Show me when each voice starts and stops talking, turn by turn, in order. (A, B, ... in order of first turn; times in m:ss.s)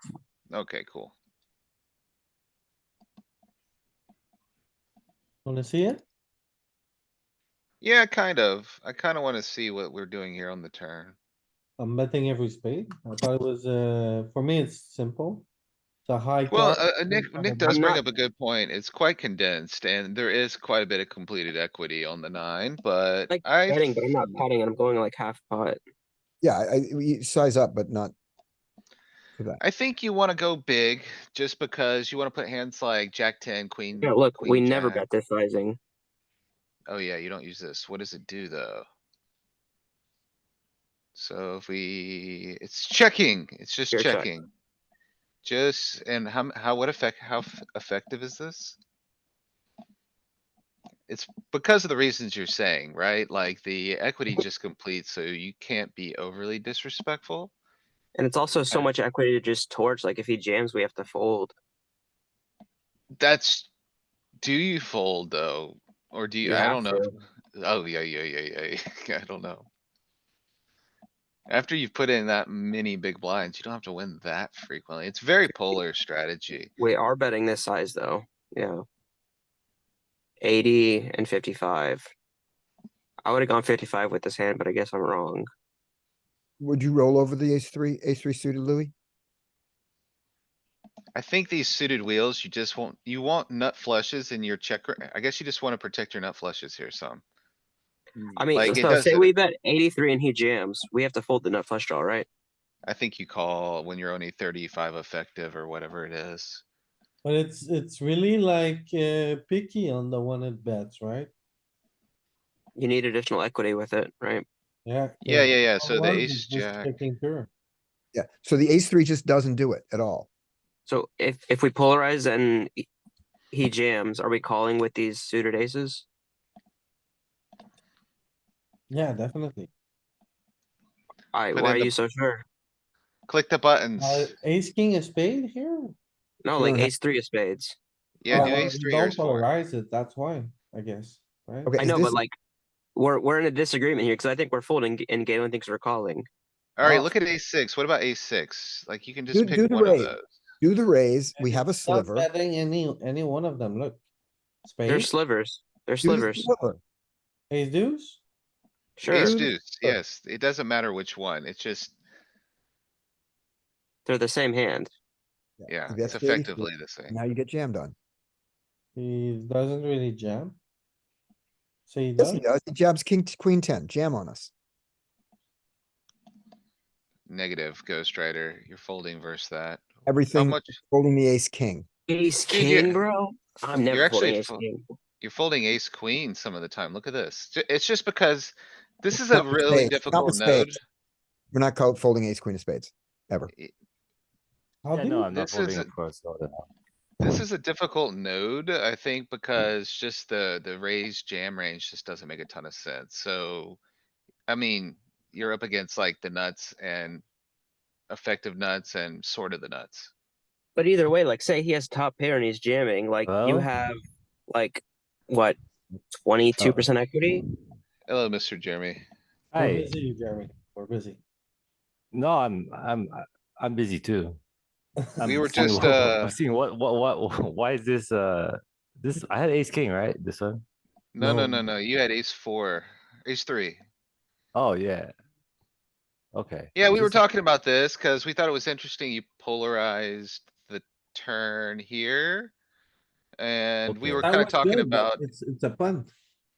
0:00.5-0:01.2 A
0:05.4-0:06.0 B
0:07.8-0:11.2 A
0:11.8-0:15.5 B
0:16.1-0:17.8 B
0:16.5-0:24.4 A
0:17.7-0:18.0 C
0:23.3-0:25.8 C
0:26.4-0:28.1 D
0:29.6-0:35.0 A
0:34.0-0:35.8 C
0:36.9-0:38.9 A
0:41.2-0:44.5 A
0:43.9-0:44.3 C
0:45.4-0:48.8 A
0:51.1-0:57.5 A
0:58.2-1:01.5 C
1:03.2-1:03.7 A
1:04.4-1:09.7 A
1:06.4-1:07.2 C
1:11.5-1:16.7 A
1:16.8-1:18.8 C
1:20.4-1:22.1 C
1:23.2-1:25.5 C
1:26.6-1:28.9 D
1:31.2-1:37.2 A
1:38.4-1:42.3 C
1:38.5-1:39.3 A
1:42.9-1:46.6 A
1:47.2-1:51.3 B
1:52.8-1:54.4 C
1:54.9-1:57.5 B
1:55.2-1:57.0 A
1:58.1-2:00.3 D
2:00.9-2:02.8 C
2:03.5-2:06.0 C
2:08.9-2:09.7 B
2:11.3-2:12.4 C
2:11.5-2:11.9 A
2:13.3-2:14.3 A
2:14.0-2:16.0 B
2:16.4-2:17.8 C
2:16.6-2:16.9 D
2:18.2-2:19.5 A
2:18.3-2:18.6 D
2:18.3-2:21.8 B
2:21.7-2:22.2 D
2:21.8-2:22.3 C
2:23.0-2:26.3 C
2:26.8-2:30.3 A
2:26.8-2:27.1 D
2:29.3-2:32.3 D
2:31.4-2:34.0 B
2:34.6-2:35.1 B
2:34.9-2:36.5 C
2:36.0-2:36.8 D
2:37.5-2:38.2 B
2:39.0-2:39.4 C
2:39.1-2:42.0 A
2:39.2-2:40.0 D
2:44.1-2:44.9 C
2:45.6-2:48.0 D
2:45.7-2:47.2 A
2:49.0-2:50.6 B
2:51.9-2:52.4 B
2:52.2-2:54.5 D
2:57.3-3:00.8 A
3:00.1-3:01.9 D
3:02.1-3:04.8 C
3:02.5-3:03.0 A
3:03.8-3:04.6 A
3:05.2-3:10.8 A
3:09.1-3:10.7 D
3:11.5-3:13.5 D
3:14.8-3:15.3 B
3:14.9-3:16.7 E
3:15.3-3:15.9 A
3:17.2-3:23.8 A
3:24.5-3:27.2 A
3:28.1-3:30.1 A
3:30.8-3:34.0 C
3:33.3-3:33.7 E
3:34.5-3:35.6 C
3:36.1-3:37.4 C
3:36.6-3:37.5 E
3:38.1-3:39.0 A
3:39.5-3:39.9 E
3:39.6-3:41.2 B
3:42.1-3:44.4 E
3:45.0-3:45.3 B
3:45.2-3:50.6 E
3:45.2-3:46.4 A
3:51.1-3:53.8 A
3:51.2-3:51.6 B
3:54.5-3:55.1 E
3:56.3-3:57.2 E
3:56.8-4:02.5 A
4:03.4-4:05.3 A
4:03.9-4:04.5 E
4:04.2-4:06.1 B